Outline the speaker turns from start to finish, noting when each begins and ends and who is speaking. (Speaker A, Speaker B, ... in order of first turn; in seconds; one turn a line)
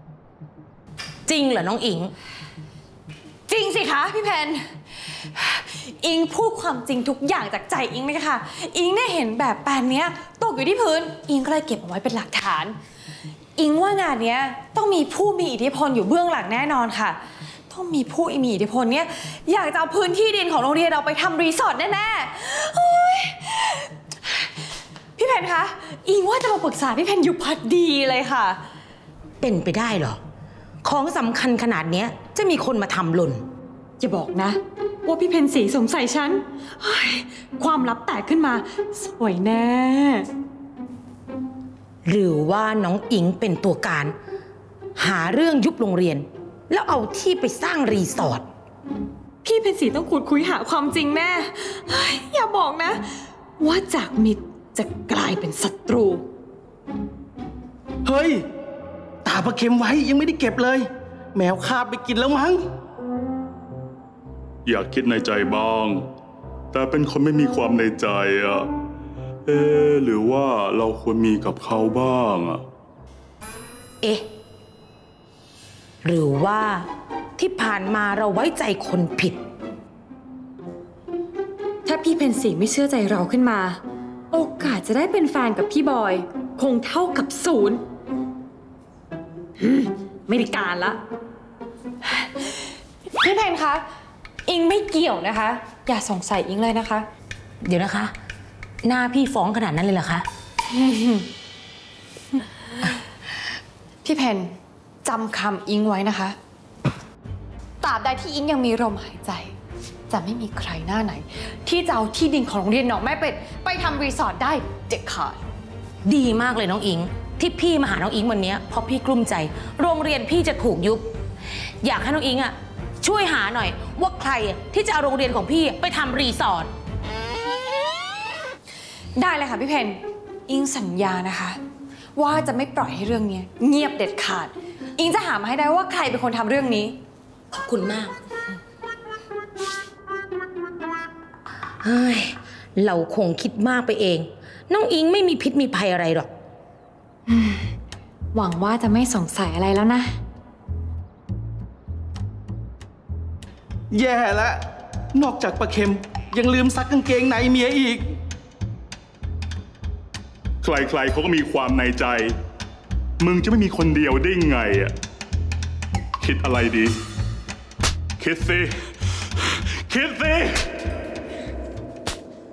Speaker A: 1.3-2.1
Speaker B: 3.5-12.8
Speaker B: 13.6-24.5
Speaker B: 25.2-28.6
Speaker A: 29.4-30.2
Speaker A: 30.8-33.4
Speaker B: 34.0-40.3
Speaker A: 42.0-44.1
Speaker A: 45.0-48.4
Speaker B: 49.4-53.0
Speaker B: 53.6-56.2
Speaker C: 58.0-58.4
Speaker C: 59.2-62.6
Speaker D: 64.7-66.0
Speaker D: 66.7-68.7
Speaker D: 69.5-72.6
Speaker A: 74.0-74.3
Speaker A: 76.0-79.4
Speaker B: 81.8-83.8
Speaker B: 84.3-87.8
Speaker B: 89.6-91.0
Speaker B: 92.1-92.5
Speaker B: 93.2-93.8
Speaker B: 94.5-97.1
Speaker A: 97.6-98.1
Speaker A: 98.8-100.3
Speaker B: 100.7-101.3
Speaker B: 104.0-106.3
Speaker B: 107.8-109.5
Speaker B: 110.1-115.4
Speaker A: 116.0-121.1
Speaker A: 121.8-126.7
Speaker B: 129.1-131.6
Speaker B: 132.2-137.0
Speaker A: 137.5-138.1
Speaker A: 141.8-146.3
Speaker B: 147.3-147.7
Speaker B: 148.3-150.2
Speaker C: 153.9-158.2
Speaker D: 160.6-162.3
Speaker D: 163.2-164.9
Speaker D: 166.2-167.0
Speaker D: 168.2-170.7